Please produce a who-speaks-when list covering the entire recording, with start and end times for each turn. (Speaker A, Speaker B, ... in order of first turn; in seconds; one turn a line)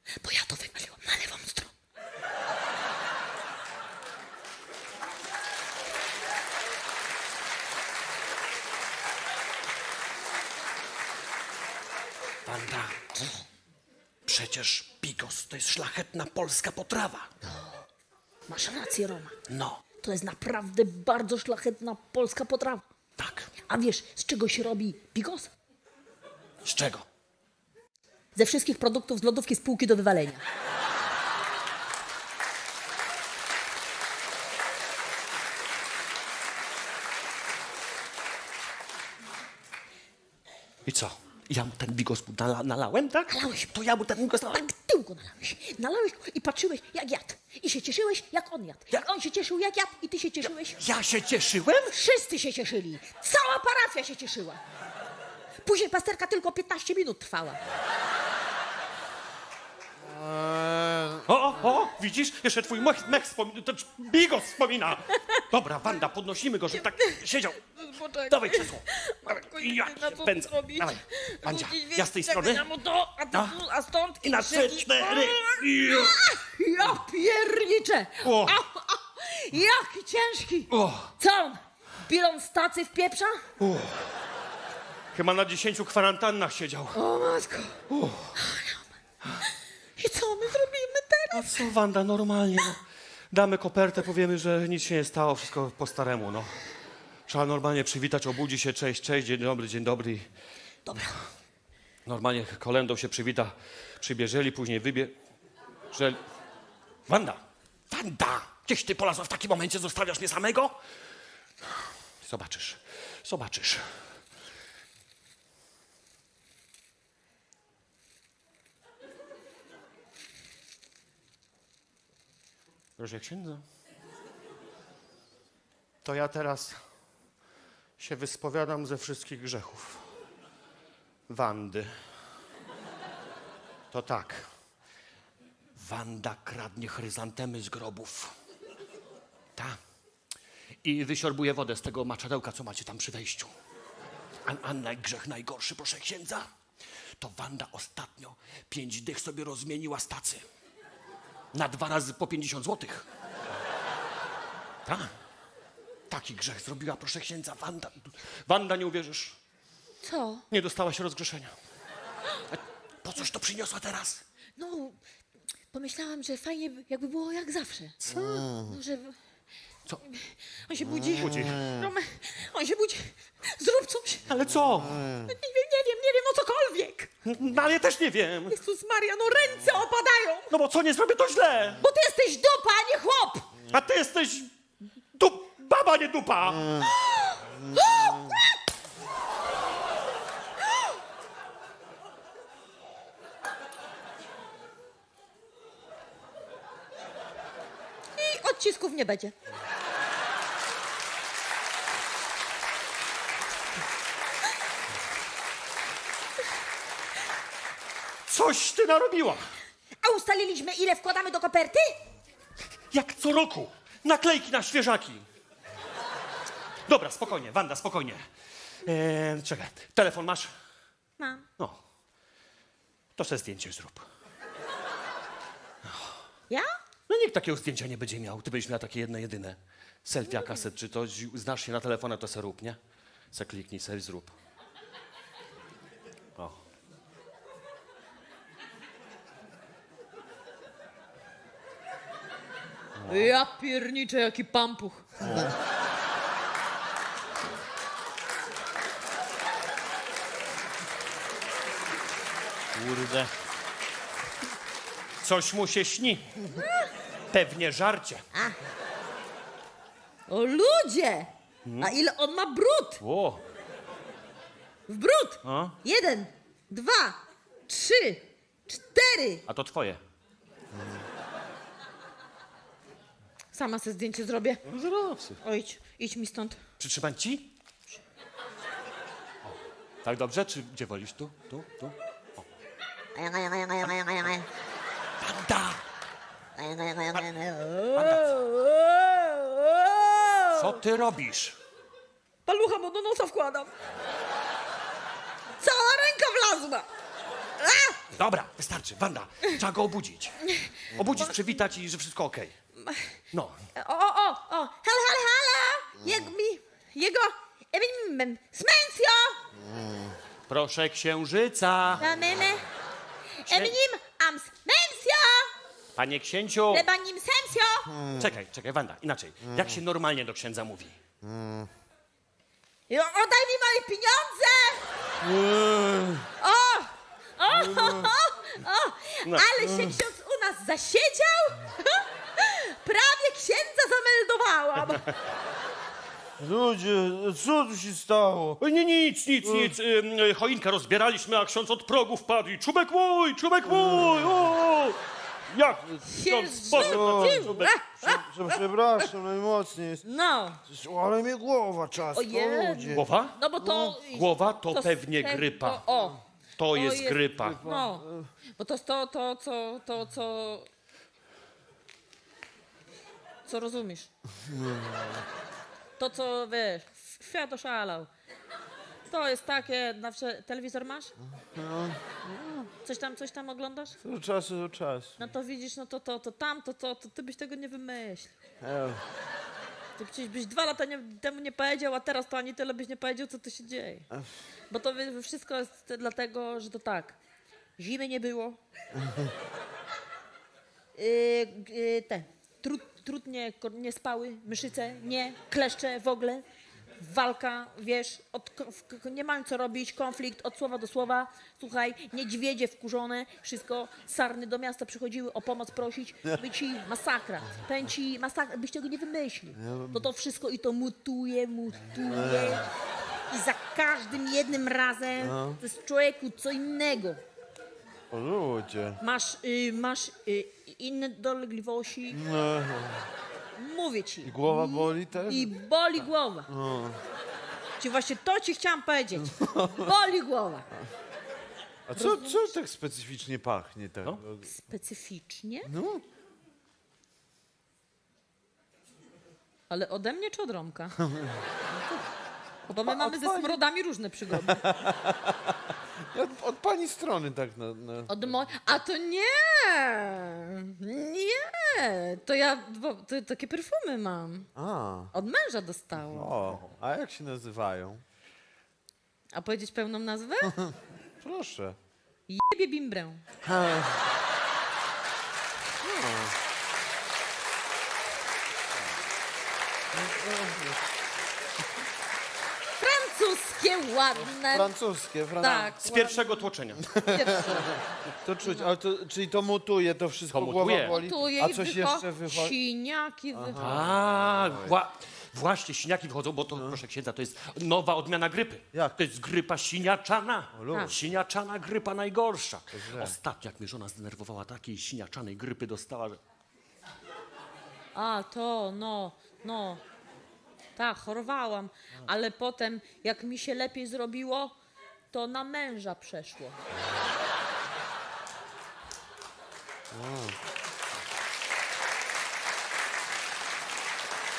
Speaker A: 0.1-1.7
Speaker B: 12.4-13.3
Speaker B: 14.2-17.3
Speaker A: 18.5-19.4
Speaker B: 19.5-19.8
Speaker A: 20.0-22.8
Speaker B: 23.2-23.5
Speaker A: 23.6-25.5
Speaker B: 26.6-27.0
Speaker A: 28.4-30.4
Speaker B: 40.8-44.6
Speaker A: 43.3-43.8
Speaker A: 44.3-50.8
Speaker B: 50.5-51.9
Speaker A: 51.9-54.6
Speaker A: 55.6-57.6
Speaker C: 60.0-61.3
Speaker B: 61.2-67.6
Speaker A: 65.2-65.4
Speaker A: 67.0-67.2
Speaker A: 67.8-83.4
Speaker B: 68.2-72.7
Speaker B: 73.3-73.6
Speaker B: 74.2-76.2
Speaker B: 78.2-78.6
Speaker B: 80.7-81.1
Speaker B: 83.6-84.1
Speaker B: 85.1-87.0
Speaker A: 86.9-87.8
Speaker B: 87.9-88.4
Speaker A: 88.3-88.9
Speaker A: 89.4-91.7
Speaker B: 91.3-96.5
Speaker B: 97.3-100.3
Speaker A: 100.8-101.2
Speaker B: 102.0-105.1
Speaker B: 105.9-106.2
Speaker B: 107.1-110.8
Speaker B: 111.7-114.1
Speaker B: 123.0-123.6
Speaker B: 126.0-126.8
Speaker B: 128.0-130.1
Speaker B: 131.3-132.0
Speaker B: 133.9-134.5
Speaker B: 135.8-138.3
Speaker B: 140.8-143.5
Speaker B: 144.4-146.5
Speaker B: 147.2-150.4
Speaker B: 151.5-153.1
Speaker B: 154.8-155.1
Speaker B: 156.1-159.4
Speaker A: 160.0-160.4
Speaker B: 160.5-161.5
Speaker B: 162.5-164.2
Speaker A: 164.6-165.0
Speaker A: 165.7-167.9
Speaker B: 168.0-168.5
Speaker C: 168.1-168.8
Speaker A: 168.6-169.2
Speaker A: 170.1-174.2
Speaker C: 170.8-171.9
Speaker B: 171.2-171.6
Speaker B: 174.3-175.2
Speaker C: 175.0-175.3
Speaker A: 175.2-177.1
Speaker B: 177.2-178.6
Speaker A: 178.5-180.5
Speaker B: 180.5-181.8
Speaker A: 181.8-183.5
Speaker B: 183.7-184.5
Speaker B: 185.2-186.9
Speaker A: 187.1-188.5
Speaker C: 187.7-188.3
Speaker A: 198.2-199.3
Speaker B: 208.3-209.5
Speaker A: 210.0-212.0
Speaker B: 212.9-215.2
Speaker B: 216.9-218.2
Speaker B: 218.8-220.5
Speaker A: 221.2-221.4
Speaker B: 223.2-224.0
Speaker B: 225.8-226.2
Speaker B: 227.1-232.8
Speaker A: 230.4-230.6
Speaker B: 233.3-234.3
Speaker B: 242.9-243.3
Speaker A: 243.1-245.1
Speaker B: 245.2-245.5
Speaker B: 252.8-253.3
Speaker B: 255.2-256.3
Speaker B: 257.3-258.2
Speaker A: 258.3-258.6
Speaker A: 260.3-263.0
Speaker B: 261.6-261.9
Speaker B: 263.0-263.4
Speaker A: 264.9-269.4
Speaker B: 265.4-265.8
Speaker B: 269.5-270.0
Speaker A: 273.5-274.6
Speaker B: 274.6-275.4
Speaker A: 275.4-276.6
Speaker B: 276.8-277.5
Speaker B: 280.0-282.4
Speaker A: 283.1-284.4
Speaker B: 285.2-285.8
Speaker A: 286.6-290.8
Speaker B: 287.9-288.3
Speaker B: 290.5-291.6
Speaker A: 292.4-293.7
Speaker A: 295.6-296.9
Speaker A: 297.6-298.0
Speaker B: 298.1-300.4
Speaker A: 300.4-301.3
Speaker B: 300.9-302.5
Speaker A: 302.8-303.1
Speaker B: 303.3-303.6
Speaker A: 303.8-309.4
Speaker C: 309.6-310.1
Speaker B: 310.5-312.0
Speaker A: 312.0-312.6
Speaker A: 313.4-315.5
Speaker B: 313.4-313.8
Speaker B: 315.9-316.9
Speaker A: 316.7-317.9
Speaker C: 317.9-318.3
Speaker B: 318.1-321.0
Speaker C: 319.4-319.8
Speaker C: 321.2-321.7
Speaker A: 322.9-324.9
Speaker C: 325.2-326.3
Speaker A: 326.4-335.1
Speaker C: 327.5-328.1
Speaker C: 329.6-330.0
Speaker C: 336.4-338.6
Speaker B: 338.6-345.0
Speaker C: 339.4-339.8
Speaker C: 343.7-344.4
Speaker B: 345.5-347.8
Speaker A: 346.0-348.2
Speaker C: 346.8-350.0
Speaker A: 350.0-350.6
Speaker C: 350.7-354.0
Speaker A: 352.1-360.7
Speaker B: 352.9-353.4
Speaker B: 353.9-355.8
Speaker B: 356.6-357.6
Speaker C: 357.4-358.3
Speaker A: 363.4-364.1
Speaker C: 364.4-365.2
Speaker A: 366.0-368.1
Speaker A: 369.1-371.1
Speaker C: 371.3-372.7
Speaker A: 372.8-374.0
Speaker C: 374.0-375.1
Speaker A: 375.2-378.3
Speaker C: 378.6-379.0
Speaker A: 380.0-384.1
Speaker A: 384.7-387.1
Speaker A: 387.8-388.6
Speaker C: 388.9-389.3
Speaker A: 390.9-396.4
Speaker A: 397.0-412.7
Speaker C: 409.6-410.1
Speaker C: 411.9-412.6
Speaker A: 413.3-417.2
Speaker C: 415.2-415.6
Speaker C: 418.1-419.0
Speaker A: 419.0-422.2
Speaker C: 422.1-423.1
Speaker A: 423.6-426.5
Speaker C: 424.2-425.5
Speaker C: 426.5-427.0
Speaker A: 427.8-430.7
Speaker C: 429.2-429.9
Speaker C: 431.9-434.4
Speaker A: 431.9-432.5
Speaker A: 434.4-435.7
Speaker C: 435.6-436.0
Speaker A: 439.7-441.0
Speaker C: 441.0-441.4
Speaker A: 442.7-444.8
Speaker C: 442.7-443.6
Speaker C: 444.3-448.3
Speaker A: 448.1-454.5
Speaker C: 454.6-455.1
Speaker A: 455.1-456.4
Speaker C: 456.1-458.0
Speaker A: 459.3-460.7
Speaker C: 460.5-461.8
Speaker A: 462.3-463.2
Speaker C: 463.4-464.0
Speaker C: 465.8-466.3
Speaker C: 469.9-470.8
Speaker A: 472.8-474.7
Speaker C: 474.1-475.8
Speaker A: 475.4-476.2
Speaker B: 475.8-476.9
Speaker C: 476.8-482.5
Speaker A: 477.0-477.7
Speaker A: 478.4-478.7
Speaker B: 480.3-481.0
Speaker A: 480.9-483.9
Speaker C: 483.3-484.8
Speaker B: 483.6-496.2
Speaker C: 490.5-491.0
Speaker A: 490.7-491.0
Speaker C: 492.7-493.2
Speaker A: 497.9-499.8
Speaker A: 500.8-504.5
Speaker A: 505.1-506.6
Speaker C: 509.9-510.4